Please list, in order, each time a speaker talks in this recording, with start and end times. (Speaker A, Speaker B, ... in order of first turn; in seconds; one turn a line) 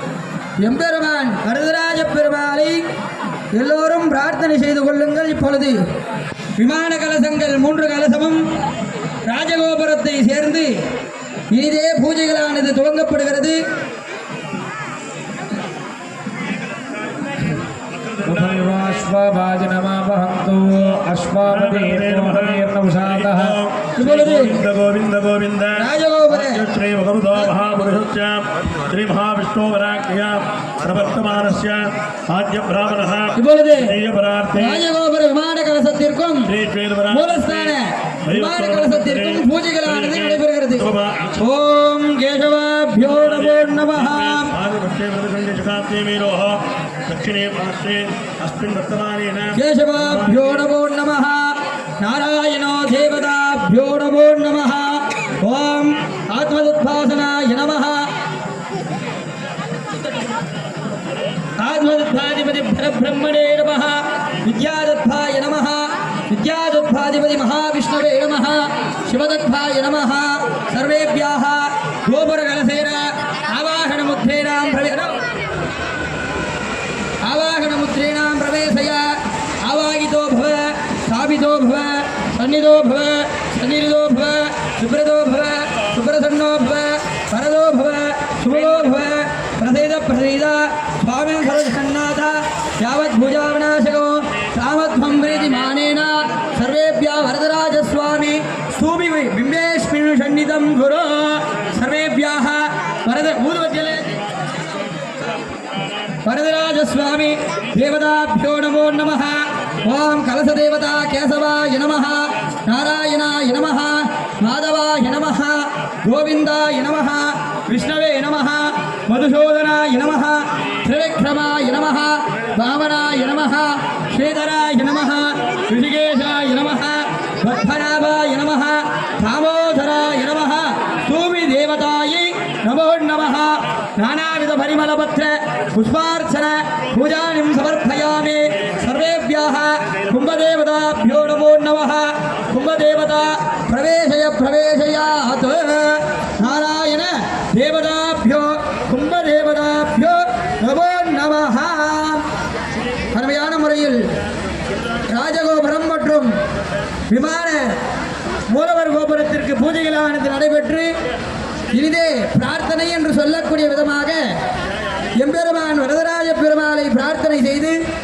Speaker A: 0.6-2.8
Speaker A: 3.5-5.8
Speaker A: 6.6-8.4
Speaker A: 9.2-10.8
Speaker A: 11.5-13.6
Speaker B: 18.1-18.8
Speaker C: 18.2-23.6
Speaker B: 21.5-34.8
Speaker A: 24.0-24.6
Speaker A: 25.8-26.6
Speaker A: 33.3-34.0
Speaker A: 34.5-36.5
Speaker B: 36.5-41.4
Speaker A: 37.1-40.9
Speaker A: 41.4-44.5
Speaker B: 43.0-50.5
Speaker A: 49.5-58.1
Speaker A: 61.6-75.2
Speaker A: 77.2-104.1
Speaker A: 106.2-152.2
Speaker A: 153.1-154.1
Speaker A: 155.0-156.3
Speaker A: 157.1-157.8
Speaker A: 158.5-160.9
Speaker A: 161.7-164.4
Speaker A: 165.1-167.8